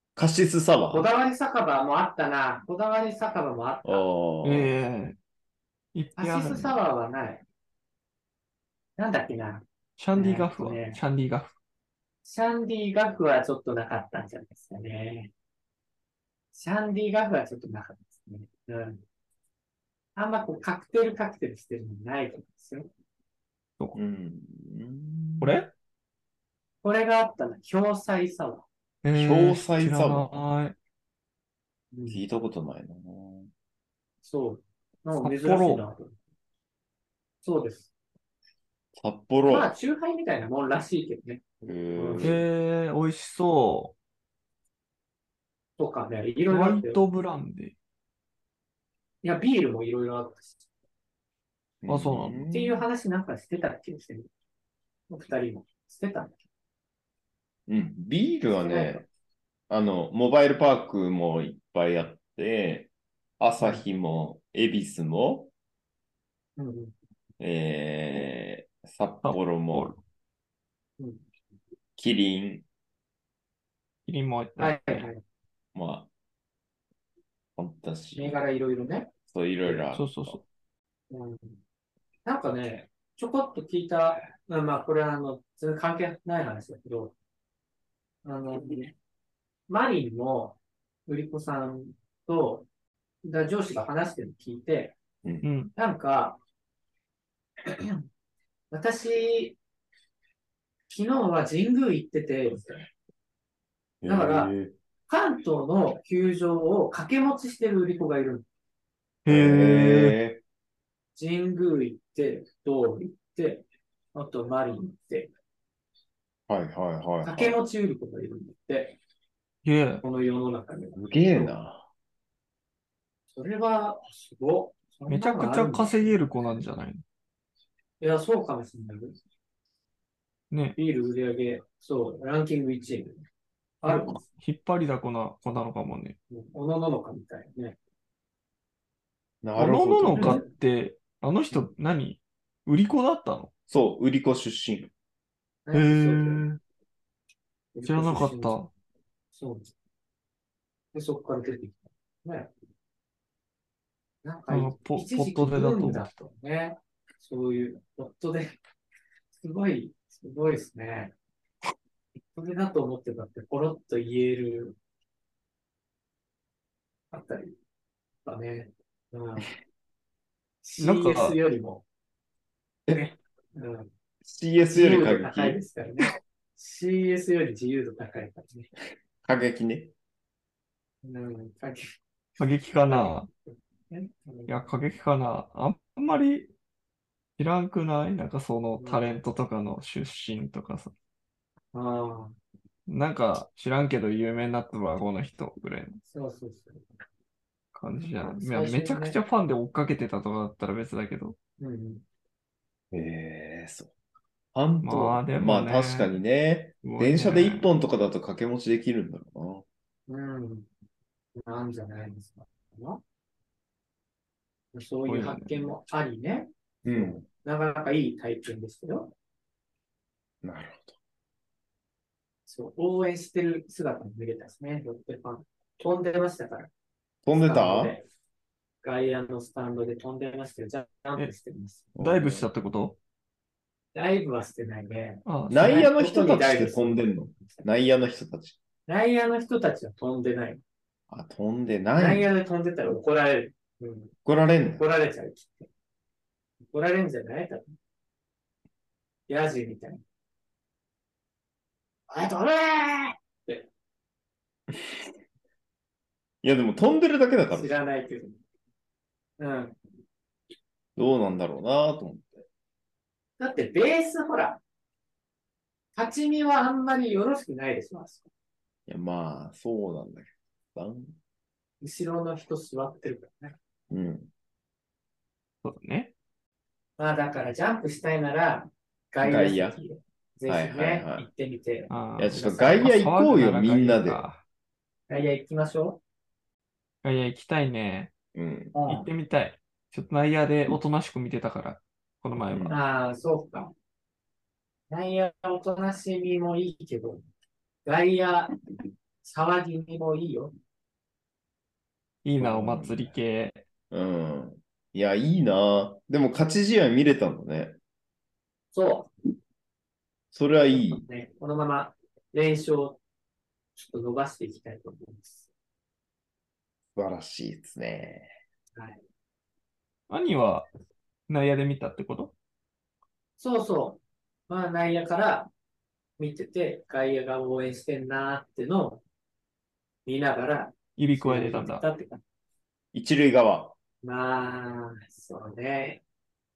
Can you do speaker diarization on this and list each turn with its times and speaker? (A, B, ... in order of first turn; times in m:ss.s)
0:00.2-0:01.1 A
0:00.9-0:04.0 B
0:03.8-0:04.7 A
0:04.4-0:05.2 C
0:05.9-0:06.8 C
0:06.2-0:07.4 B
0:09.0-0:11.0 B
0:10.0-0:11.6 C
0:12.2-0:15.3 B
0:16.5-0:19.0 B
0:20.2-0:22.9 B
0:24.0-0:25.6 A
0:25.4-0:25.7 C
0:26.8-0:28.7 B
0:29.0-0:30.8 C
0:29.1-0:30.4 A
0:31.9-0:32.2 B
0:32.1-0:33.5 A
0:34.2-0:36.2 B
0:35.2-0:35.8 C
0:37.4-0:37.9 B
0:39.0-0:39.7 A
0:39.4-0:41.4 B
0:41.6-0:42.5 A
0:42.0-0:42.3 B
0:42.2-0:43.9 C
0:45.8-0:47.0 B
0:46.5-0:47.7 C
0:49.2-0:50.6 B
0:51.8-0:52.8 A
0:51.9-0:52.4 C
0:52.5-0:54.3 B
0:55.1-0:56.4 B
0:57.7-0:59.0 A
0:58.5-0:59.0 B
0:59.7-1:05.5 A
1:03.6-1:03.8 B
1:06.6-1:06.9 B
1:07.4-1:09.9 A
1:09.2-1:10.0 C
1:12.0-1:12.6 A
1:14.1-1:15.1 C
1:14.6-1:15.2 B
1:15.7-1:16.1 A
1:17.6-1:18.4 A
1:18.2-1:19.1 B
1:19.3-1:20.4 A
1:19.9-1:20.4 C
1:21.1-1:21.6 B
1:22.2-1:27.1 B
1:28.2-1:29.0 B
1:29.7-1:32.7 B
1:33.2-1:35.0 B
1:35.4-1:35.7 C
1:35.8-1:36.4 B
1:37.7-1:38.0 B
1:38.7-1:39.6 B
1:40.9-1:42.9 B
1:44.0-1:44.7 A
1:44.0-1:44.5 B
1:45.1-1:48.5 B
1:49.2-1:50.2 C
1:49.3-1:50.4 A
1:51.2-1:55.3 B
1:56.5-1:57.6 A
1:57.2-1:59.0 B
1:59.6-2:00.0 C
2:00.0-2:01.5 B
2:01.0-2:01.9 A
2:03.3-2:06.2 B
2:05.1-2:07.0 C
2:08.0-2:09.2 B
2:10.5-2:10.8 C
2:10.8-2:13.3 B
2:13.8-2:14.2 B
2:13.8-2:16.2 C
2:16.3-2:17.8 B
2:19.4-2:20.4 A
2:19.6-2:23.5 C
2:20.2-2:20.5 B
2:23.7-2:24.9 A
2:25.7-2:26.5 B
2:25.7-2:26.6 C
2:27.7-2:28.6 B
2:27.8-2:28.7 C
2:29.4-2:29.7 B
2:30.9-2:32.5 B
2:34.2-2:38.6 B
2:34.5-2:36.2 C
2:39.4-2:41.1 B
2:42.3-2:44.8 B
2:47.1-2:47.6 B
2:48.2-2:49.5 B
2:50.6-2:51.8 B
2:50.8-2:51.4 C
2:52.9-2:53.9 B
2:54.2-2:55.6 A
2:54.7-2:58.7 B
2:59.2-2:59.9 A
3:01.0-3:02.0 B
3:02.4-3:03.3 C
3:02.9-3:03.2 B
3:03.9-3:04.6 B
3:04.5-3:06.5 C
3:07.4-3:10.9 C
3:08.8-3:09.2 B
3:11.7-3:12.4 B
3:12.9-3:16.0 C
3:16.1-3:16.8 B
3:17.8-3:21.4 C
3:18.2-3:19.2 B
3:21.6-3:22.0 B
3:22.9-3:23.9 A
3:24.5-3:29.6 A
3:24.8-3:26.2 C
3:26.8-3:27.7 C
3:30.1-3:30.7 B
3:31.5-3:33.0 B
3:34.7-3:39.1 B
3:35.1-3:35.7 C
3:36.8-3:37.3 A
3:40.4-3:41.0 A
3:42.5-3:46.7 B
3:47.2-3:48.0 A
3:47.3-3:48.0 B
3:48.8-3:51.9 B
3:52.0-3:52.5 A
3:52.0-3:53.0 C
3:53.9-3:57.7 B
3:55.3-3:55.9 C
3:55.5-3:58.6 A
3:58.9-4:00.6 B
4:01.1-4:02.3 A
4:02.0-4:04.1 B
4:04.2-4:04.8 A
4:04.8-4:05.7 B
4:06.6-4:07.7 B
4:09.3-4:10.0 B
4:12.1-4:13.7 B
4:16.4-4:17.8 A
4:17.5-4:18.4 B
4:19.4-4:19.8 B
4:21.0-4:22.4 A
4:23.4-4:24.6 B
4:26.0-4:28.3 B
4:28.9-4:31.2 A
4:31.8-4:33.6 B
4:33.9-4:34.3 A
4:35.6-4:36.1 C
4:37.0-4:41.9 B
4:39.2-4:39.8 A
4:40.5-4:41.3 A
4:41.9-4:44.4 C
4:42.2-4:44.2 A
4:45.1-4:46.0 B
4:47.0-4:48.1 C
4:48.4-4:48.8 A
4:48.7-4:49.1 B
4:48.9-4:52.8 C
4:52.5-4:52.8 A
4:52.7-4:53.7 B
4:54.9-4:57.2 B
4:57.8-4:58.6 B
4:59.2-5:00.6 B
5:02.2-5:03.6 C
5:02.4-5:03.2 A
5:03.9-5:07.8 A
5:08.7-5:09.1 B
5:10.3-5:11.0 A
5:10.9-5:13.0 B
5:13.8-5:15.5 B
5:17.0-5:18.4 A
5:18.8-5:19.0 B
5:20.1-5:20.7 C
5:21.3-5:22.3 C
5:23.4-5:25.5 B
5:26.2-5:29.0 B
5:30.1-5:32.2 B
5:31.0-5:31.8 C
5:32.9-5:33.8 A
5:34.0-5:36.0 B